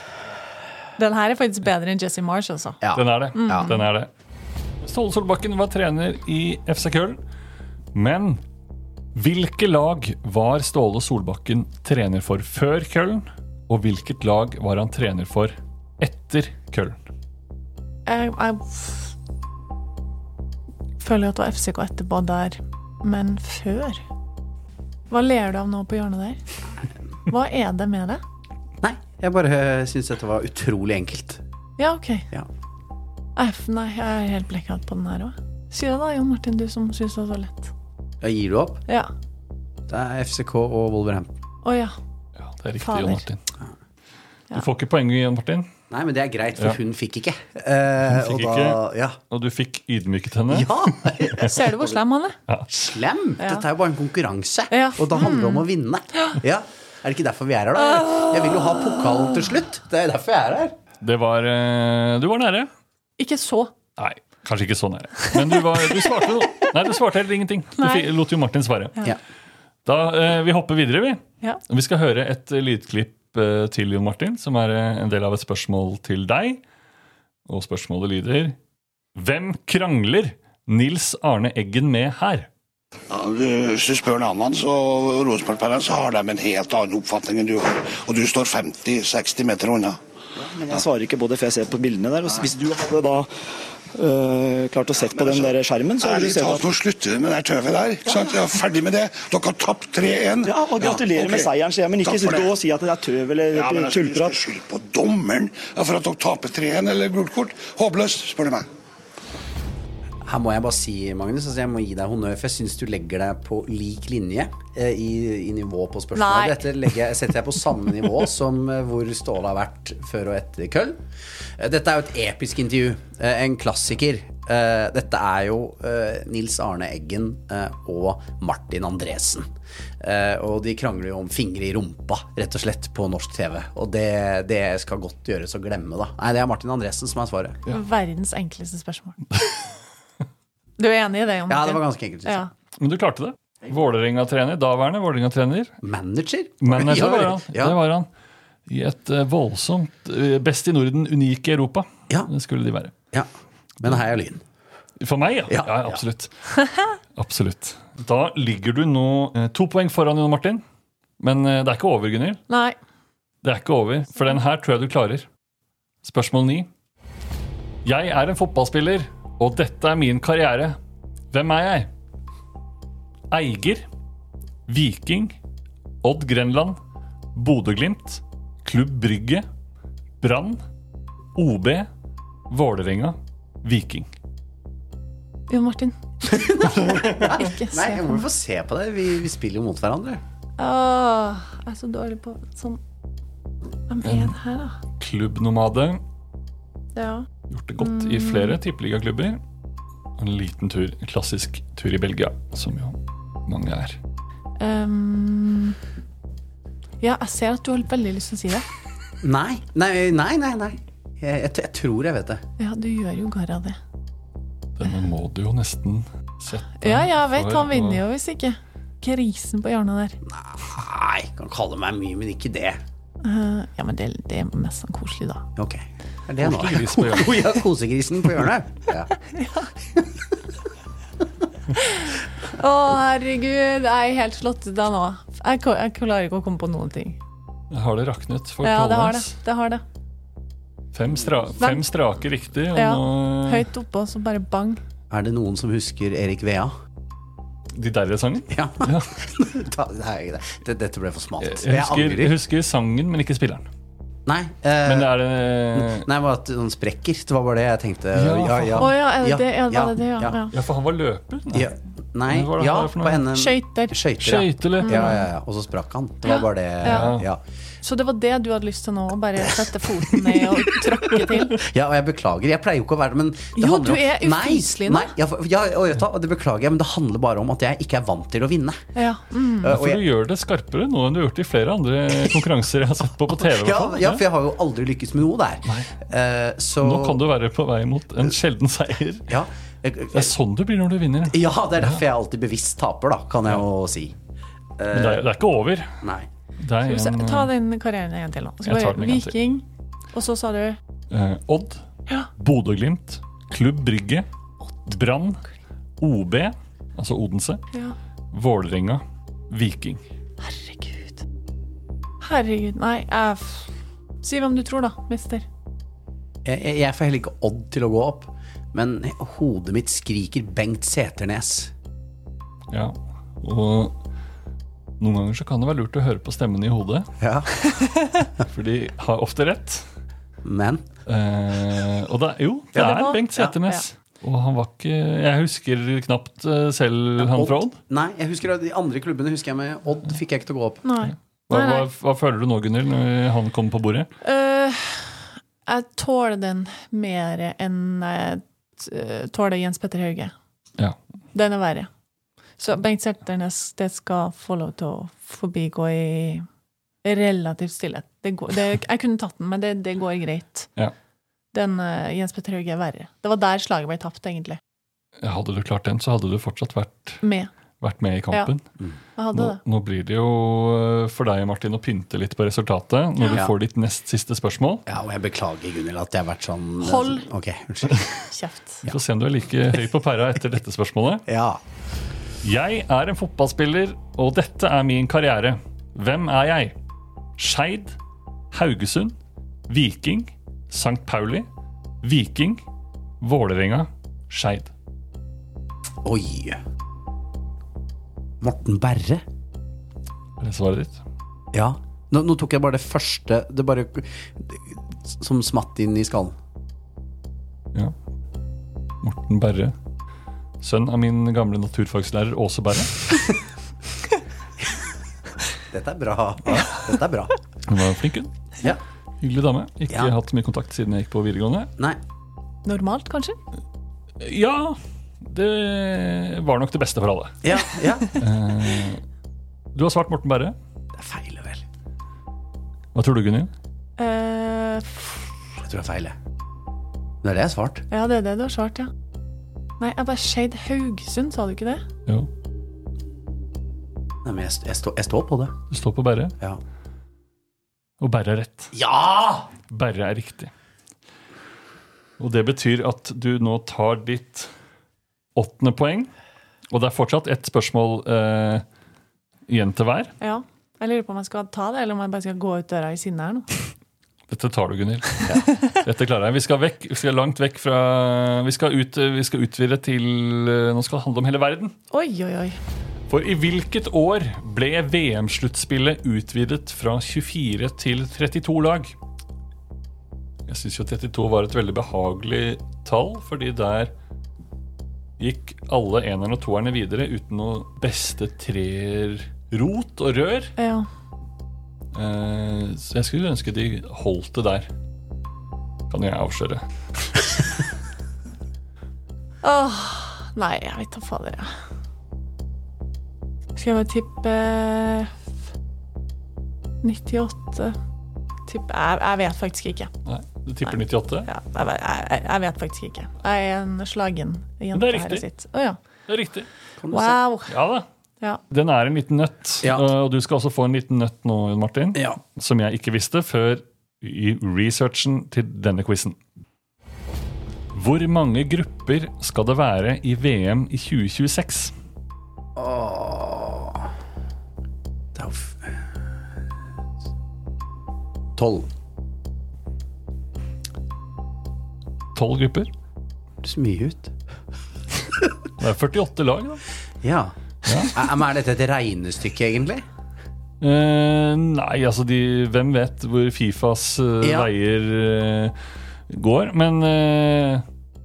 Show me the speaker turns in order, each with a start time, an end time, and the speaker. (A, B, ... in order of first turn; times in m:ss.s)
0:01.0-0:02.8 A
0:02.8-0:03.7 B
0:02.9-0:04.1 C
0:03.4-0:03.8 A
0:04.8-0:07.2 C
0:07.9-0:08.4 C
0:09.2-0:17.0 C
0:18.1-0:19.1 A
0:21.0-0:24.0 A
0:25.1-0:26.4 A
0:27.3-0:28.2 A
0:28.8-0:31.4 B
0:31.8-0:32.3 A
0:33.4-0:37.7 A
0:38.2-0:38.8 B
0:39.9-0:41.3 B
0:41.6-0:41.9 A
0:42.4-0:43.4 C
0:42.8-0:43.2 A
0:44.5-0:45.7 C
0:45.9-0:49.2 B
0:48.1-0:51.0 C
0:50.5-0:52.0 B
0:51.4-0:52.4 A
0:52.5-0:53.0 C
0:52.7-1:00.8 B
0:54.7-0:55.6 A
0:58.0-0:58.3 A
1:01.0-1:02.7 C
1:03.2-1:03.7 A
1:04.0-1:09.0 C
1:07.8-1:08.1 A
1:09.9-1:16.6 C
1:17.5-1:18.6 C
1:19.2-1:22.5 C
1:23.1-1:30.0 D
1:30.5-1:33.3 E
1:33.9-1:36.7 E
1:35.0-1:41.5 D
1:40.4-1:44.4 E
1:42.0-1:42.5 D
1:43.5-1:48.6 D
1:50.2-2:01.0 B
1:56.2-1:56.7 A
2:01.6-2:09.5 B
2:10.0-2:17.6 B
2:17.7-2:19.2 A
2:20.8-2:22.5 A
2:21.5-2:22.5 B
2:22.8-2:25.7 C
2:25.8-2:27.8 B
2:26.6-2:28.1 C
2:28.7-2:32.9 C
2:33.8-2:34.4 B
2:35.0-2:36.3 C
2:35.5-2:36.0 B
2:37.1-2:40.6 C
2:41.2-2:42.4 C
2:42.5-2:42.8 A
2:43.4-2:45.3 C
2:46.0-2:46.7 C
2:47.8-2:50.8 C
2:51.3-2:51.9 C
2:53.3-2:53.8 C
2:54.7-2:55.4 C
2:56.0-2:56.8 C
2:57.4-2:59.5 C
3:00.2-3:00.6 C
3:01.4-3:01.9 C
3:02.5-3:04.1 C
3:05.5-3:08.2 A
3:06.3-3:10.2 B
3:10.6-3:12.8 A
3:13.9-3:14.8 A
3:14.0-3:14.4 C
3:15.0-3:16.0 C
3:17.0-3:17.3 A
3:17.5-3:19.4 C
3:17.8-3:18.6 A
3:20.2-3:24.0 C
3:24.6-3:25.8 A
3:27.0-3:28.7 A
3:29.2-3:32.4 B
3:32.6-3:33.8 A
3:34.8-3:38.0 C
3:36.8-3:40.2 A
3:40.3-3:42.8 B
3:43.2-3:45.5 A
3:45.6-3:49.1 B
3:46.4-3:47.5 C
3:49.2-3:49.7 A
3:51.8-3:57.2 A
3:57.7-3:59.3 C
3:58.6-3:59.8 A
4:00.9-4:03.7 C
4:02.8-4:04.8 A
4:05.1-4:06.7 B
4:07.7-4:09.1 C
4:08.5-4:12.4 B
4:11.4-4:13.7 C
4:14.3-4:15.1 B
4:14.9-4:16.1 C
4:15.7-4:20.4 B
4:18.2-4:18.9 C
4:18.8-4:20.5 A
4:20.5-4:21.7 C
4:21.5-4:27.4 B
4:22.3-4:23.3 C
4:23.3-4:24.0 A
4:24.2-4:25.2 C
4:24.8-4:25.3 A
4:26.3-4:27.1 A
4:26.8-4:27.3 C
4:27.8-4:31.6 A
4:31.5-4:38.8 B
4:33.6-4:35.1 A
4:39.0-4:39.7 A
4:39.6-4:40.0 B
4:39.6-4:44.2 C
4:43.3-4:47.2 B
4:45.7-4:45.9 C
4:46.8-4:49.4 C
4:49.3-4:50.3 B
4:50.1-4:52.0 C
4:51.3-4:54.2 B
4:54.8-4:55.3 B
4:54.9-4:56.0 C
4:56.0-4:56.3 B
4:56.6-4:57.5 C
4:56.8-5:00.8 A
4:58.6-4:59.4 C
5:01.1-5:01.8 C
5:02.4-5:04.3 C
5:04.9-5:05.4 C
5:06.0-5:07.6 C
5:08.3-5:10.0 C
5:10.4-5:11.2 A
5:12.2-5:13.7 A
5:14.2-5:15.4 A
5:16.4-5:21.7 B
5:22.7-5:24.0 C
5:25.0-5:27.1 C
5:27.2-5:27.6 B
5:28.4-5:29.9 C
5:30.4-5:30.8 B
5:31.1-5:37.8 C
5:32.8-5:33.5 B
5:32.8-5:33.8 A
5:37.2-5:40.8 B
5:40.8-5:41.9 A
5:41.5-5:44.1 C
5:44.2-5:50.3 A
5:51.3-5:51.9 A
5:52.6-5:56.4 A
5:57.0-6:00.7 A
6:01.5-6:04.6 A
6:05.2-6:07.2 C
6:07.2-6:07.5 A
6:07.8-6:08.6 C
6:09.2-6:09.6 A
6:09.3-6:14.8 C
6:13.3-6:13.5 B
6:14.9-6:18.1 B
6:16.8-6:17.2 A
6:18.3-6:18.8 A
6:18.8-6:21.2 C
6:21.3-6:21.6 B
6:22.4-6:26.8 C
6:27.4-6:28.0 C
6:28.5-6:29.2 C
6:29.7-6:31.5 C
6:32.0-6:32.6 C
6:33.2-6:34.7 C
6:36.0-6:36.6 B
6:38.4-6:39.2 B
6:40.4-6:41.0 C
6:41.5-6:46.4 B
6:49.0-6:49.8 C
6:50.6-6:53.1 C
6:55.7-6:57.3 B
6:57.7-6:58.3 C
6:59.2-7:01.7 C
7:02.6-7:03.4 A
7:04.2-7:07.5 C
7:07.4-7:08.1 B
7:08.2-7:09.0 C
7:09.8-7:10.6 C
7:11.0-7:11.6 B
7:13.0-7:13.5 C
7:14.0-7:15.3 A
7:15.6-7:16.2 B
7:17.2-7:17.8 B
7:17.9-7:18.9 A
7:19.8-7:21.8 A
7:24.2-7:25.6 B
7:25.7-7:26.3 C
7:28.0-7:28.7 C
7:28.7-7:29.5 B
7:29.7-7:30.5 C
7:32.2-7:34.5 C
7:35.4-7:36.1 C
7:36.7-7:38.6 C
7:39.5-7:40.1 C
7:40.2-7:43.5 A
7:44.3-7:51.8 C
7:51.9-7:52.6 A
7:53.1-7:58.9 C
8:00.5-8:03.9 C
8:05.2-8:10.5 C
8:10.6-8:10.9 A
8:11.9-8:14.7 C
8:15.9-8:16.6 C
8:19.4-8:21.5 A
8:23.6-8:25.1 A
8:26.8-8:27.8 A
8:28.5-8:29.9 A
8:30.0-8:31.3 C
8:30.6-8:35.8 A
8:34.7-8:35.3 C
8:36.1-8:36.5 C
8:36.8-8:37.2 B
8:36.9-8:37.5 A
8:37.5-8:37.9 C
8:38.5-8:46.2 C
8:47.7-8:51.7 C
8:52.6-8:53.8 B
8:55.2-8:55.9 B
8:58.4-8:58.7 B
9:02.2-9:02.7 C
9:03.4-9:04.1 B
9:05.6-9:06.6 C
9:07.0-9:09.8 B
9:07.6-9:07.9 C
9:10.6-9:15.6 C
9:14.2-9:14.5 B
9:16.1-9:17.6 C